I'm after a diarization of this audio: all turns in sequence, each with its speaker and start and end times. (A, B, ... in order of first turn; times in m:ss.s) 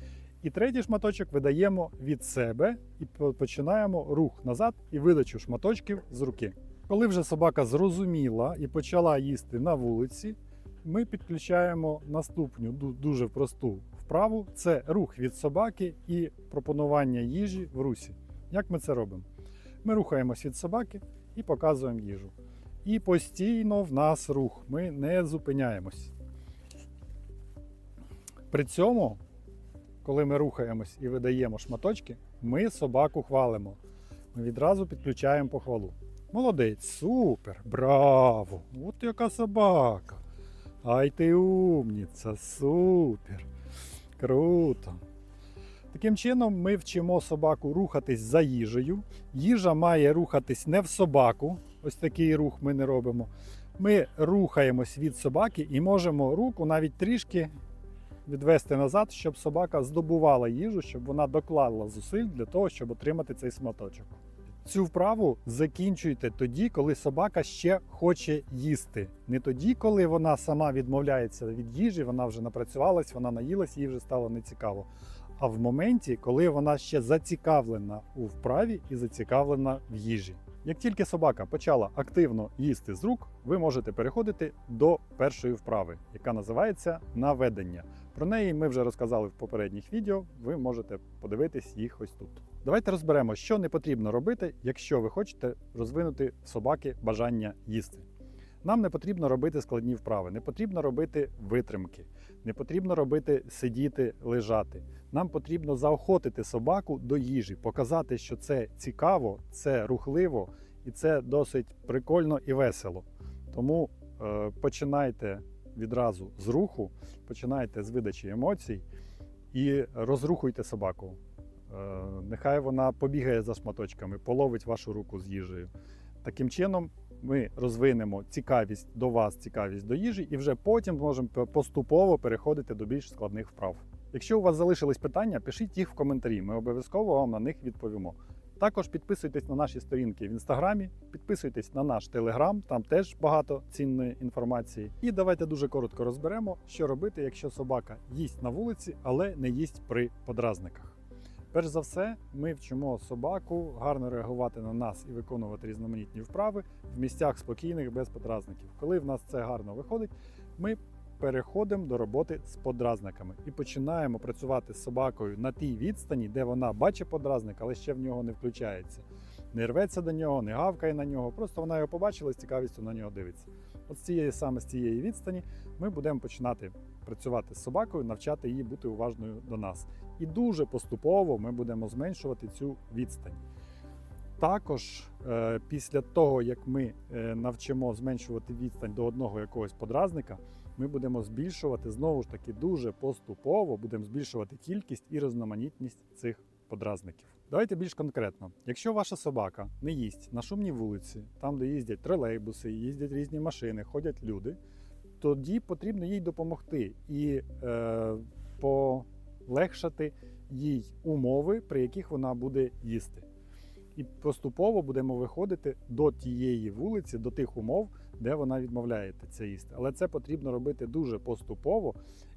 0:00.4-0:19.2 A
0:19.8-0:22.3 A
0:22.8-0:26.1 A
0:28.5-0:29.2 A
0:30.0-0:33.8 A
0:34.3-0:40.2 A
0:40.8-0:43.5 A
0:44.2-0:45.0 A
0:45.9-0:57.5 A
0:58.3-1:38.1 A
1:38.6-1:58.8 A
1:59.5-2:05.7 A
2:06.2-2:31.0 A
2:31.5-3:03.4 A
3:04.4-3:24.6 A
3:25.2-3:33.3 A
3:34.0-3:42.0 A